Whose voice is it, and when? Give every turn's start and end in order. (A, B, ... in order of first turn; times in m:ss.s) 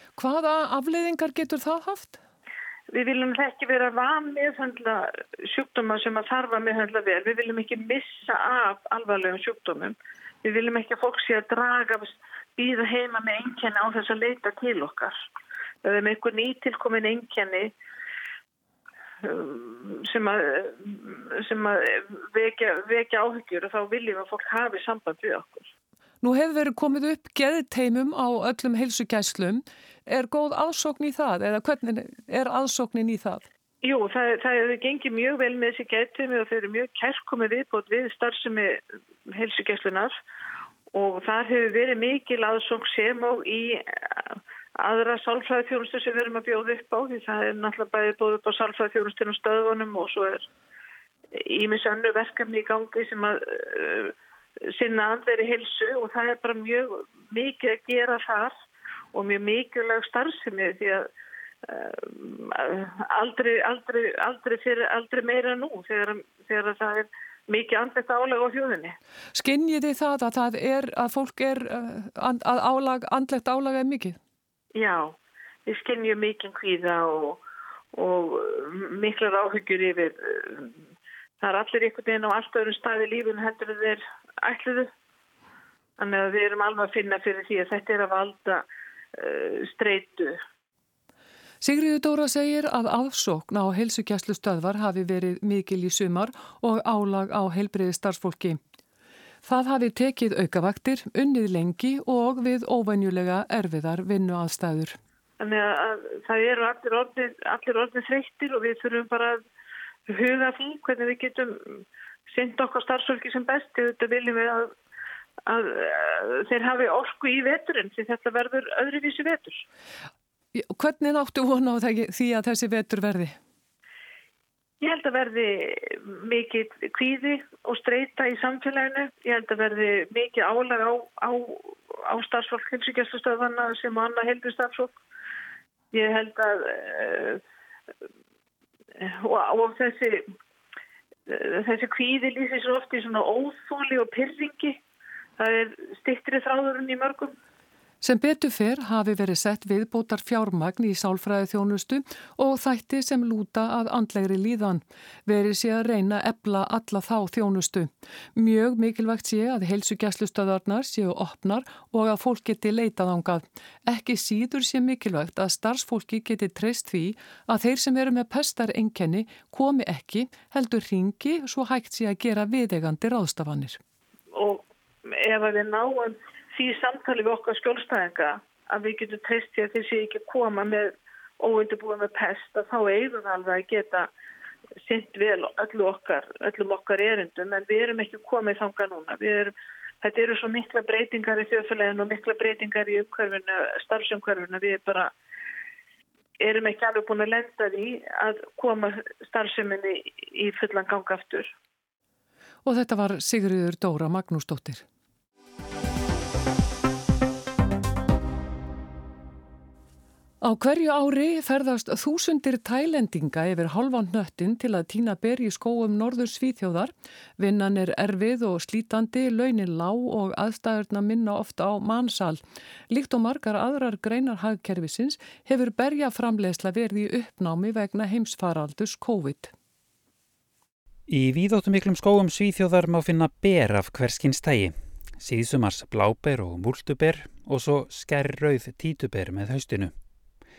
0:00.2-0:02.2 A
0:02.9-0:15.1 B
0:15.8-0:17.7 B
0:19.2-0:25.7 B
0:26.2-0:33.5 A
0:33.8-0:40.1 B
0:40.9-0:50.5 B
0:51.4-0:54.1 B
0:54.7-0:58.5 B
0:59.1-1:01.1 B
1:01.6-1:09.0 B
1:09.4-1:14.2 A
1:14.8-1:17.4 B
1:17.9-1:20.7 B
1:21.4-1:24.9 B
1:26.0-1:30.4 B
1:31.6-1:38.6 A
1:39.4-1:45.0 A
1:45.4-1:49.4 B
1:50.1-1:54.7 B
1:55.5-1:59.6 B
2:00.6-2:03.4 A
2:04.8-2:15.0 B
2:15.9-2:17.4 B
2:19.0-2:20.2 B
2:21.3-2:24.8 B
2:25.4-2:27.3 B
2:28.0-2:53.8 A
2:54.4-3:04.1 B
3:04.8-3:15.1 B
3:16.4-3:21.5 B
3:22.6-3:24.8 A
3:30.4-3:49.5 A
3:51.1-3:59.9 C